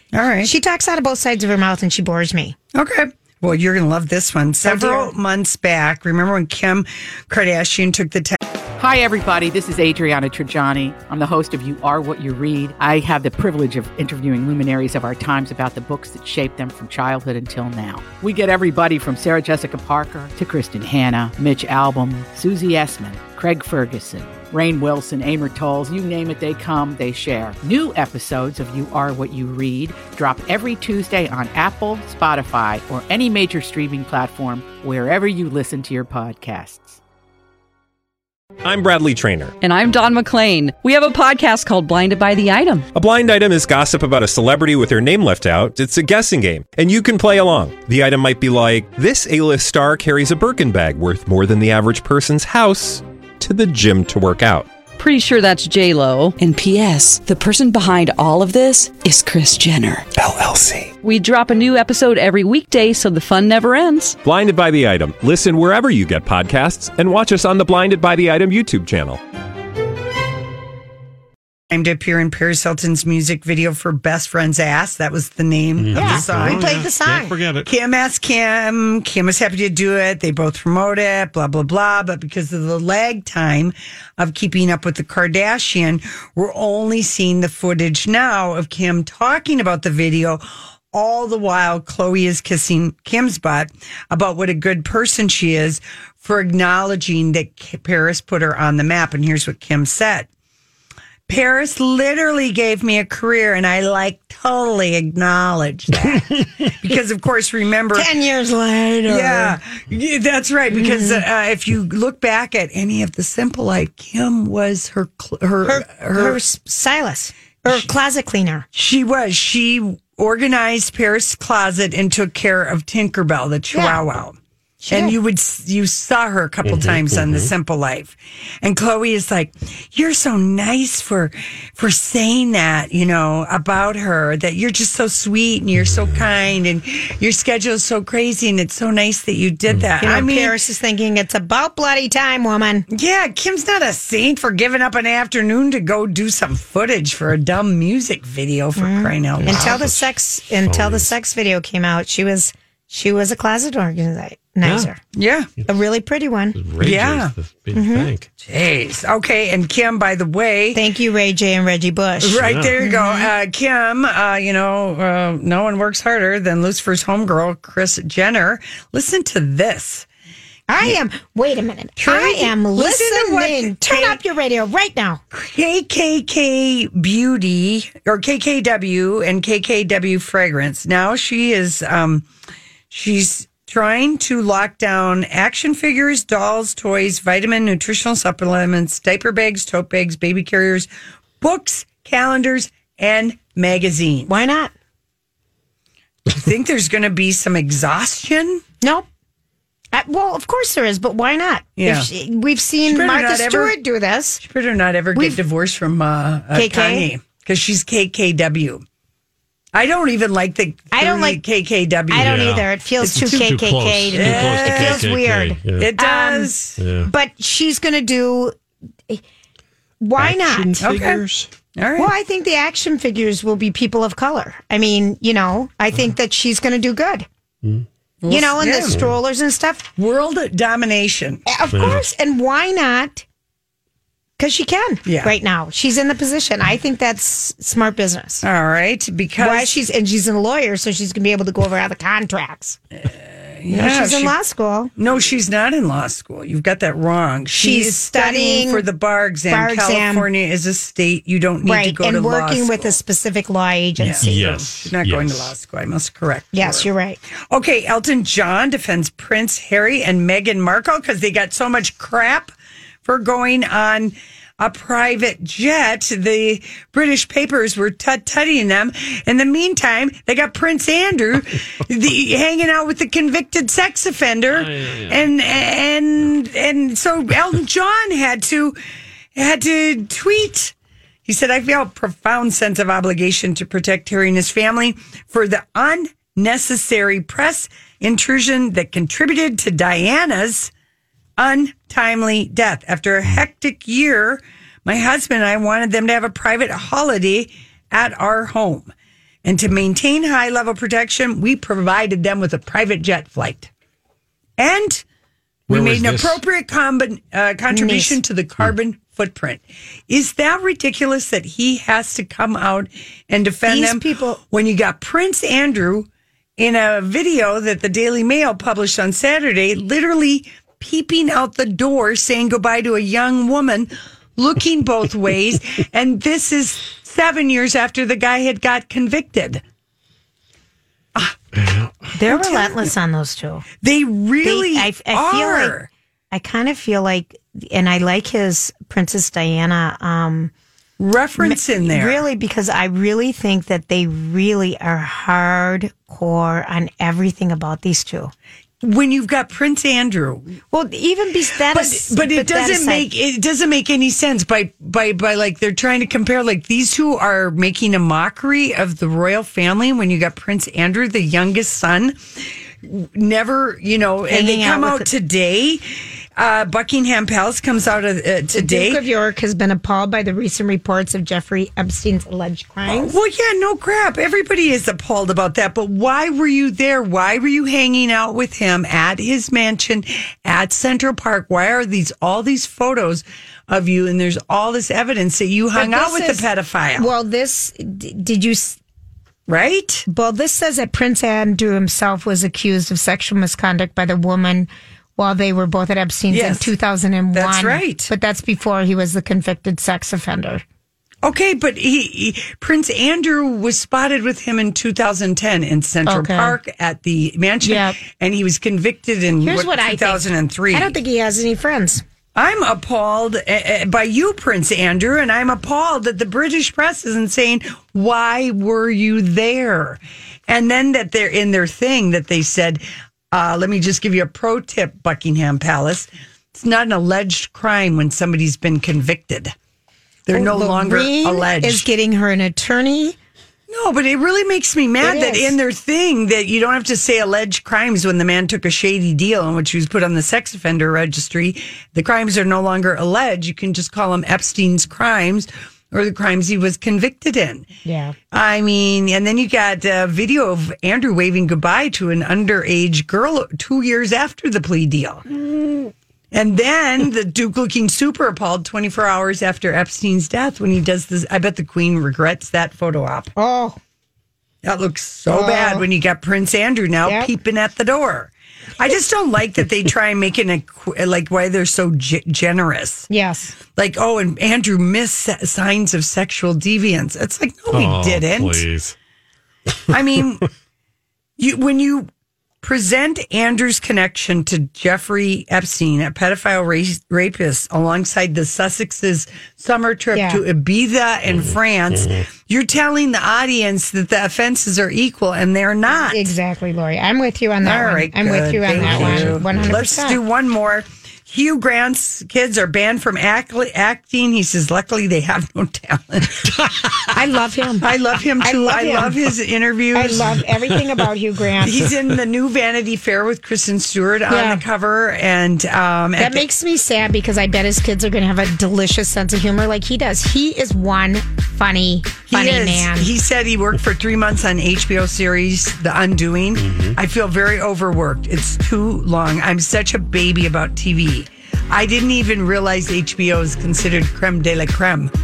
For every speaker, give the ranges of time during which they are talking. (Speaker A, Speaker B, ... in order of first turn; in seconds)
Speaker A: 0.1-0.5, 2.7-8.4, 60.4-60.8, 71.7-76.7, 77.7-100.3, 101.3-108.1, 109.1-116.4, 118.7-124.4, 124.9-140.6, 142.9-149.9, 155.2-155.5, 156.8-157.3, 158.4-160.8, 162.2-170.1, 172.0-174.2, 175.3-182.3, 182.9-190.9, 191.4-194.3, 196.3-198.6, 201.8-202.1, 202.8-203.8, 204.4-208.8, 209.7-212.5, 214.1-215.1, 215.8-216.8, 220.8-221.2, 221.8-222.1, 228.2-229.0, 230.0-231.4, 235.1-235.3, 238.4-239.8, 243.0-244.3, 245.0-253.0, 254.0-256.9, 257.5-262.5, 263.1-278.8, 279.4-280.7, 281.2-290.7, 291.4-298.9, 299.4-303.7, 304.6-305.0, 305.7-329.6, 332.3-332.9, 333.8-335.9, 341.0-342.2, 348.8-350.6, 351.7-369.0, 372.9-387.1, 389.5-390.1, 396.3-396.7, 397.3-398.1, 401.2-410.9, 412.4-429.6, 430.3-431.9, 433.7-447.7, 448.3-455.2, 456.3-463.3, 464.6-473.1, 473.8-478.6, 479.9-480.4, 481.4-482.1, 482.6-496.3, 497.6-506.5, 507.8-510.3, 511.6-516.5, 522.3-535.1
Speaker B: 0.4-2.6, 4.6-5.1, 75.9-77.4, 107.9-109.6, 110.7-111.2, 115.6-118.7, 123.7-124.0, 124.8-125.2, 140.0-142.9, 148.8-155.0, 155.7-156.6, 157.7-158.1, 160.7-163.3, 170.7-175.2, 194.3-194.7, 198.8-199.1, 199.9-204.4, 206.5-207.1, 210.9-211.4, 212.1-216.5, 217.1-218.6, 220.0-220.8, 222.0-227.3, 228.3-229.9, 231.5-233.2, 234.4-238.4, 239.4-242.8, 243.7-244.9, 247.5-248.9, 249.5-250.3, 251.7-254.5, 256.5-257.2, 307.7-308.2, 313.7-314.4, 332.2-333.6, 334.4-335.8, 336.3-340.5, 341.4-348.3, 350.7-353.1, 364.3-365.1, 368.5-373.1, 385.8-388.8, 390.1-400.6, 406.1-406.6, 407.6-408.0, 409.4-412.0, 430.3-433.2, 435.0-435.5, 447.9-448.2, 463.4-463.8, 465.3-465.9, 467.1-467.3, 473.1-473.6, 490.1-490.4, 496.1-500.2, 507.1-507.9, 508.4-509.2, 509.9-511.9, 514.3-514.6, 516.2-523.1
Speaker C: 8.8-37.0
Speaker D: 38.6-39.5, 42.9-54.7, 64.2-69.2
Speaker E: 39.6-42.9, 55.0-60.1, 61.0-64.2
Speaker F: 75.8-77.7, 126.6-127.5, 139.7-140.2, 149.4-150.1, 150.7-151.1, 154.6-154.9, 156.6-158.3, 162.4-162.7, 212.2-215.9, 216.8-217.1, 220.2-221.5, 228.9-229.1, 231.7-232.0, 254.0-255.5, 274.5-275.2, 305.7-306.4, 331.6-332.1, 477.7-478.9, 498.8-499.8, 526.6-527.0